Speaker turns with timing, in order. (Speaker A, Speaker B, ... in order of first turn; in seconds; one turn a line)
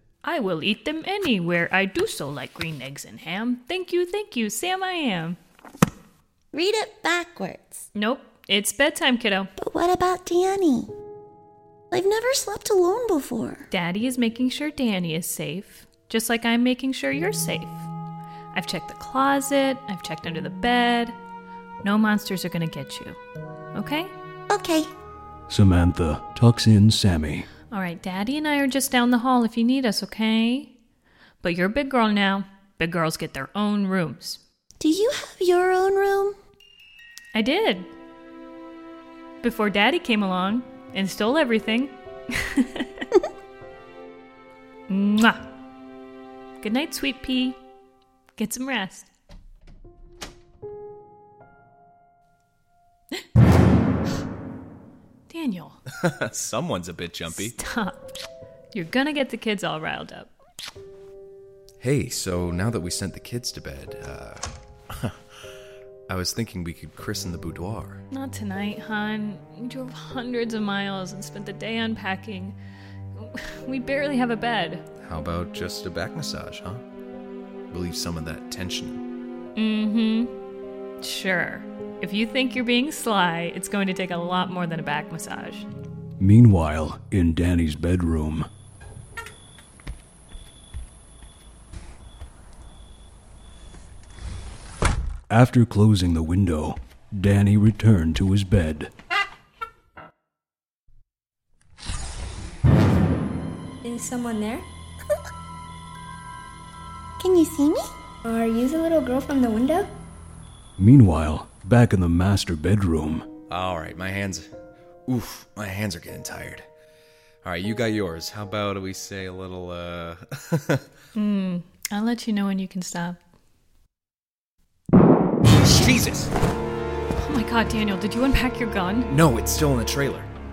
Speaker A: 0.2-5.4
Speaker B: 6.5-7.8
Speaker A: 7.9-9.5
Speaker B: 9.6-10.9
Speaker B: 11.9-13.7
Speaker A: 13.7-17.9
Speaker A: 18.5-21.1
Speaker A: 21.8-23.2
Speaker A: 23.8-24.1
Speaker B: 24.5-24.9
Speaker C: 25.5-27.5
Speaker A: 27.7-30.7
Speaker A: 31.4-34.4
Speaker B: 34.8-36.4
Speaker A: 37.3-37.9
Speaker A: 39.4-43.1
Speaker A: 44.9-45.4
Speaker A: 46.6-47.6
Speaker A: 48.4-49.1
Speaker A: 55.3-55.8
Speaker D: 55.9-57.5
Speaker A: 57.3-58.1
Speaker A: 58.7-60.3
Speaker D: 61.8-65.2
Speaker D: 66.1-68.0
Speaker A: 68.1-72.5
Speaker A: 73.2-74.8
Speaker D: 75.0-76.8
Speaker D: 77.7-79.0
Speaker A: 79.5-80.3
Speaker A: 81.0-85.7
Speaker C: 86.2-88.5
Speaker C: 95.3-98.9
Speaker E: 103.8-104.7
Speaker B: 107.2-107.9
Speaker E: 108.2-109.9
Speaker C: 110.8-113.3
Speaker D: 113.5-114.5
Speaker D: 115.1-116.6
Speaker D: 117.4-120.8
Speaker A: 121.1-123.2
Speaker D: 125.6-126.3
Speaker A: 127.2-129.1
Speaker D: 129.1-130.3